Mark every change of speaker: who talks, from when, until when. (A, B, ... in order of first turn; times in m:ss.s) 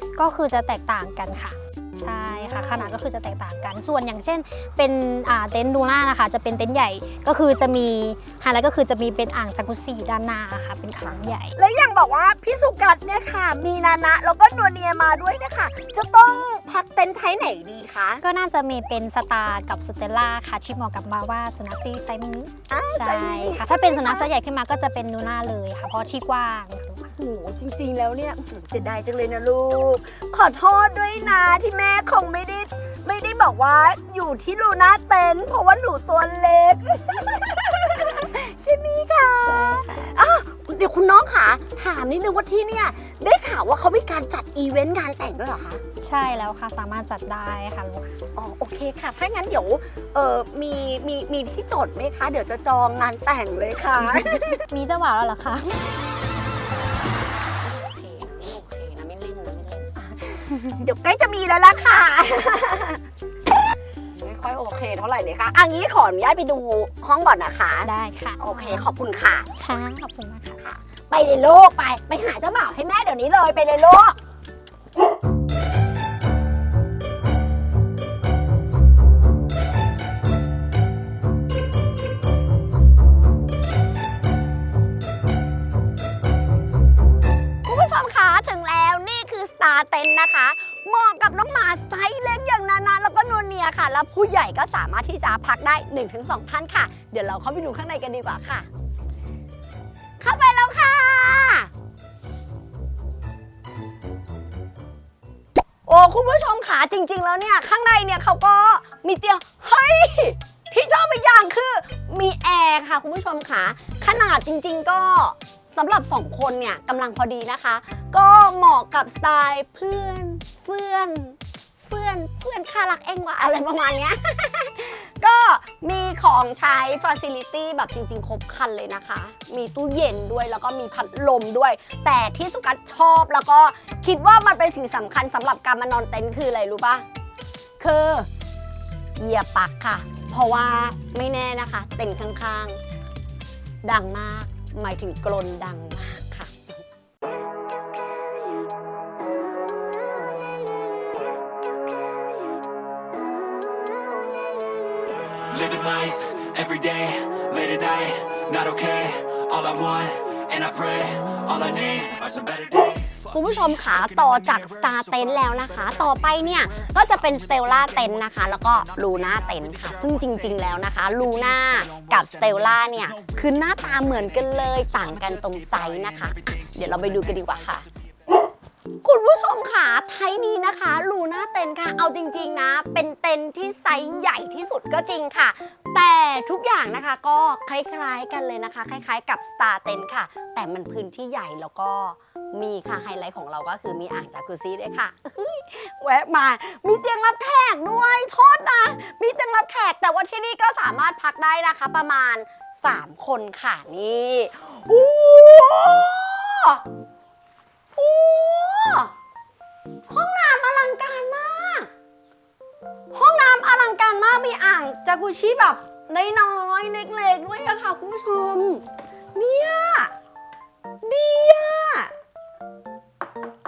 0:00.2-0:11.6 A
0:02.0-0:03.0 B
0:11.0-0:18.2 B
0:18.2-0:27.1 A
0:22.7-0:24.3 B
0:27.2-0:45.8 B
0:39.4-0:40.1 A
0:46.0-0:48.2 A
0:48.4-0:54.6 B
0:54.7-0:55.7 A
0:57.6-1:03.0 B
1:04.2-1:09.5 B
1:07.8-1:08.9 A
1:09.6-1:10.6 A
1:10.6-1:14.2 B
1:27.6-1:38.7 B
1:40.2-1:41.7 B
1:45.9-2:17.0 B
2:17.8-2:18.3 B
2:19.2-2:22.8 B
2:23.8-2:26.8 B
2:35.4-2:57.9 C
2:43.3-2:57.8 B
2:59.0-3:26.8 B
3:28.0-3:29.1 B
3:30.1-3:31.9 B
3:33.1-3:40.1 B
3:41.0-3:42.1 B